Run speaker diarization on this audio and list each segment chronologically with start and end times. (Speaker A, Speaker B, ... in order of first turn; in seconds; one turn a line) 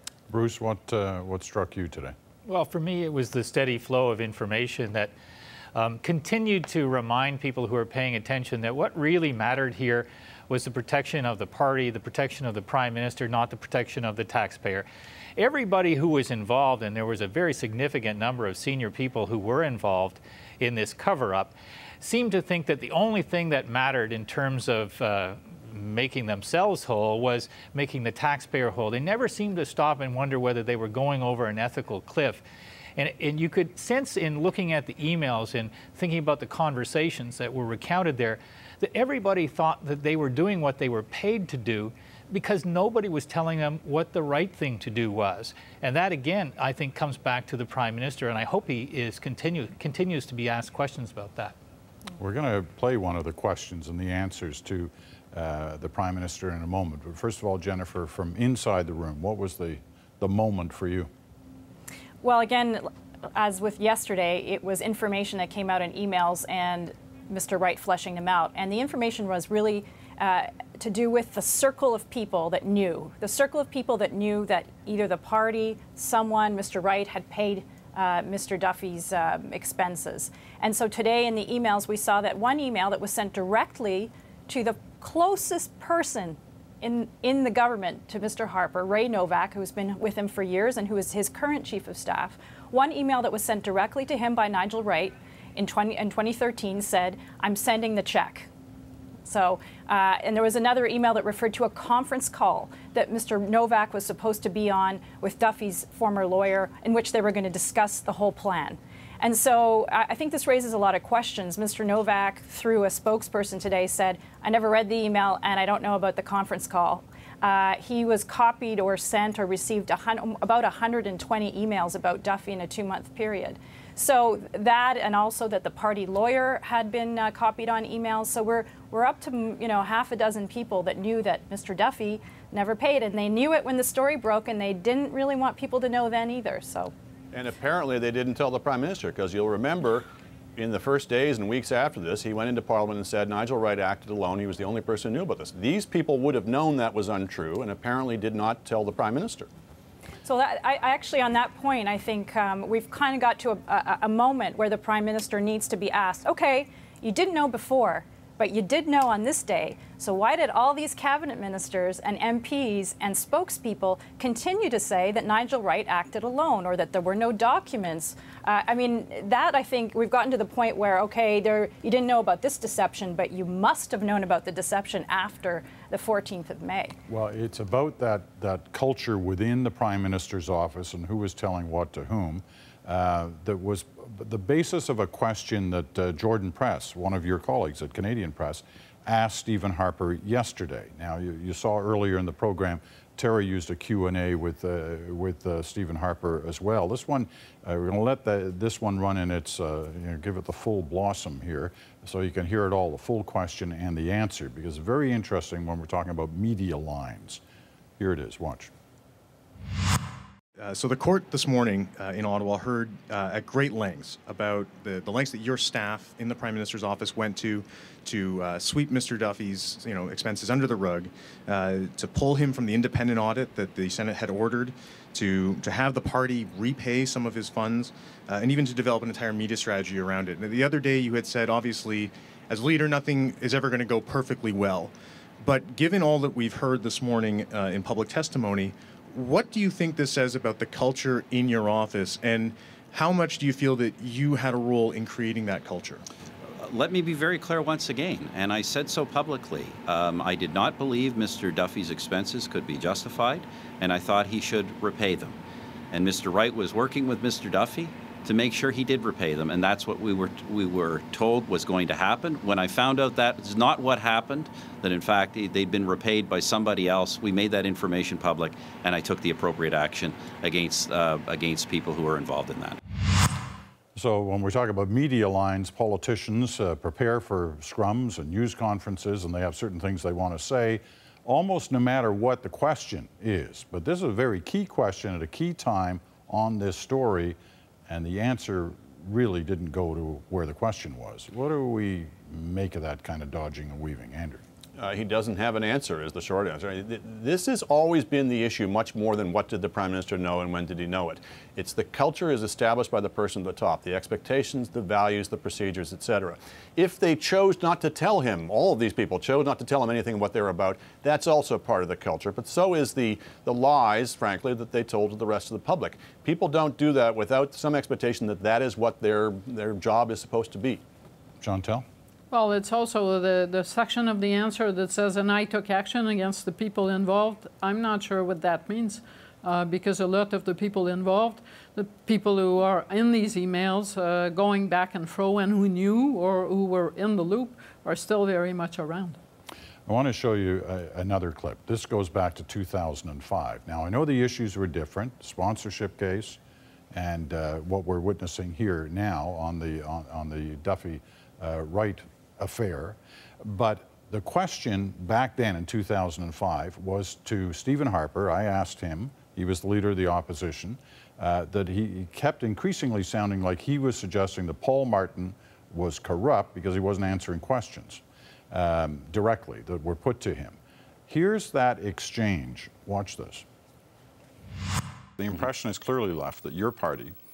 Speaker A: 0.3-2.1
Speaker B: 2.5-5.1
Speaker B: 5.7-14.8
Speaker B: 15.4-32.4
Speaker B: 33.0-51.5
Speaker A: 52.2-61.1
Speaker C: 62.2-98.5
Speaker C: 99.2-136.9
Speaker D: 137.3-149.5
Speaker C: 150.2-176.9
Speaker A: 177.1-207.4
Speaker A: 208.0-208.7
Speaker E: 210.6-246.0
Speaker F: 246.6-255.4
Speaker F: 255.9-272.8
Speaker A: 273.9-287.4
Speaker A: 287.9-294.4
Speaker D: 294.8-320.8
Speaker A: 321.4-321.9
Speaker G: 322.3-339.2
Speaker A: 339.9-346.4
Speaker A: 346.9-370.6
Speaker A: 371.1-373.4
Speaker A: 375.2-377.1